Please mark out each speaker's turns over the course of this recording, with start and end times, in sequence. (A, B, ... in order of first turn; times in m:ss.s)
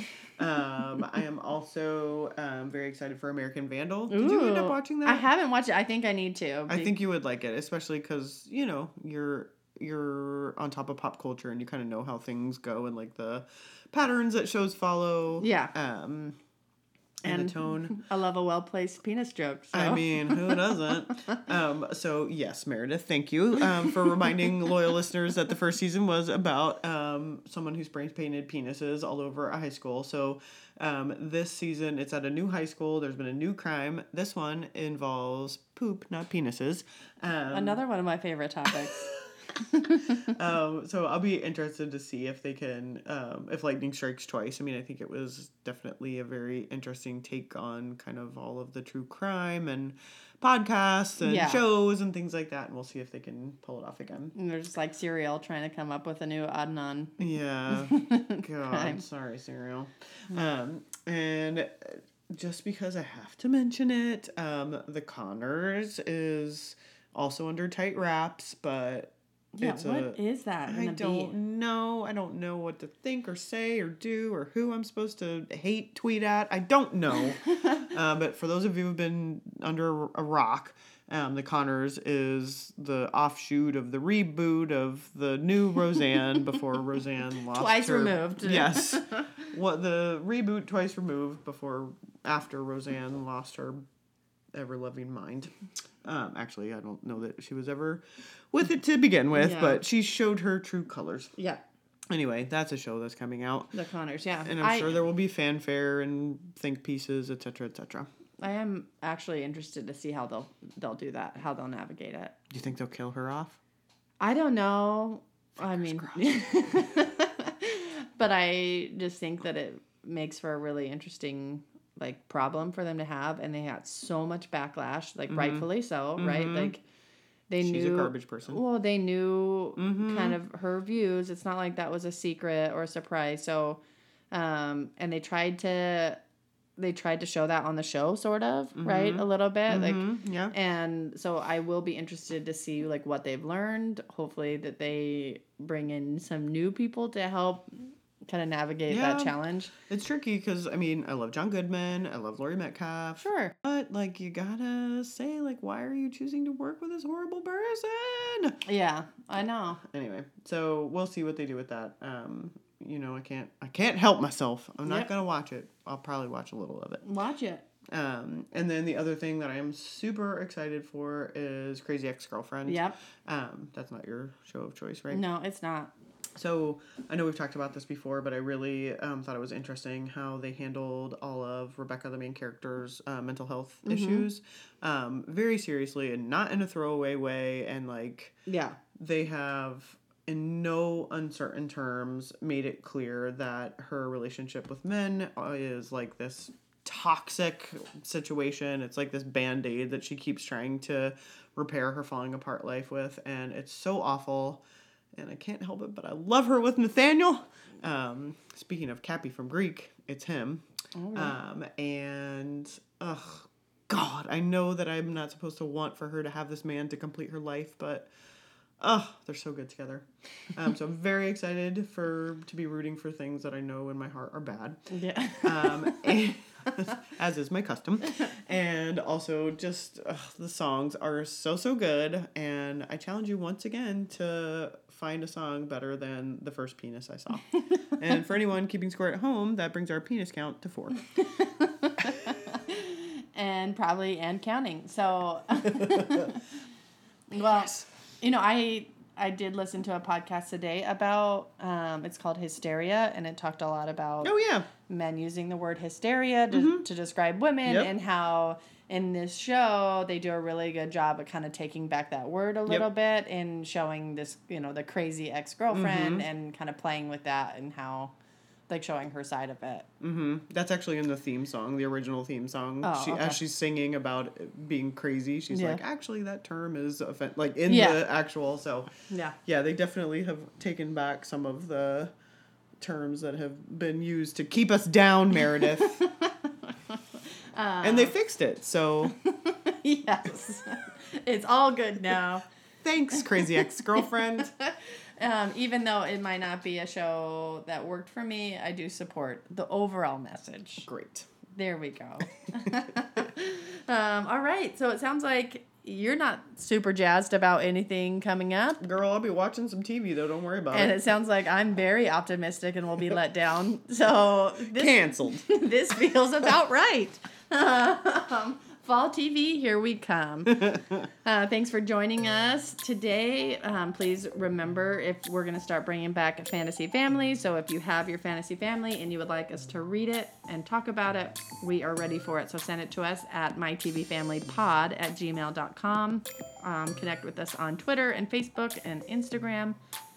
0:00.4-0:05.2 A
0:04.1-0:06.9 B
0:06.7-0:16.4 A
0:15.4-0:15.7 B
0:17.2-0:18.0 A
0:17.2-0:21.4 B
0:19.7-0:37.8 A
0:37.5-0:40.3 B
0:38.7-0:39.0 A
0:40.1-0:54.4 A
0:51.2-0:51.6 B
0:54.4-0:57.2 B
0:57.2-1:33.8 A
0:57.7-0:59.0 B
1:09.5-1:11.3 B
1:17.4-1:17.9 B
1:27.5-1:29.5 B
1:34.5-1:35.5 A
1:36.0-1:41.4 A
1:39.3-1:39.8 B
1:41.4-1:41.6 B
1:42.1-1:43.7 A
1:43.7-1:44.9 B
1:44.4-1:48.1 A
1:48.4-1:52.3 B
1:52.5-1:53.6 A
1:54.2-2:06.8 B
1:55.7-1:56.4 A
2:05.3-2:06.7 A
2:07.5-2:13.8 B
2:07.6-2:08.6 A
2:09.8-2:10.4 A
2:14.3-2:16.2 B
2:16.8-2:29.7 B
2:18.8-2:20.6 A
2:28.9-2:38.6 A
2:33.2-2:33.5 B
2:38.6-2:39.8 B
2:39.8-2:47.0 A
2:44.8-2:45.1 B
2:47.0-2:47.7 B
2:47.9-2:55.2 A
2:52.7-2:53.0 B
2:55.1-2:55.9 B
2:56.4-3:08.4 A
3:03.8-3:04.3 B
3:08.5-3:08.8 B
3:09.0-3:24.6 A
3:25.2-3:30.6 A
3:31.0-3:31.4 B
3:31.2-3:38.1 A
3:38.8-3:44.8 A
3:44.9-3:46.1 B
3:45.4-4:01.0 A
4:01.2-4:06.4 B
4:05.7-4:06.3 A
4:07.3-4:14.4 B
4:14.2-4:14.7 A
4:14.9-4:28.1 B
4:16.5-4:16.9 A
4:17.7-4:17.9 A
4:25.7-4:26.3 A
4:28.7-4:29.9 B
4:30.0-4:38.9 A
4:32.8-4:33.4 B
4:35.5-4:35.8 B
4:37.7-4:38.0 B
4:39.1-4:39.4 B
4:39.4-4:42.1 A
4:42.8-4:46.0 A
4:45.5-4:48.1 B
4:47.8-4:49.1 A
4:49.0-4:52.5 B
4:52.8-4:54.5 A
4:53.1-5:00.9 B
5:00.9-5:01.3 A
5:01.6-5:08.8 B
5:08.8-5:10.9 A
5:10.7-5:39.8 B
5:14.7-5:15.4 A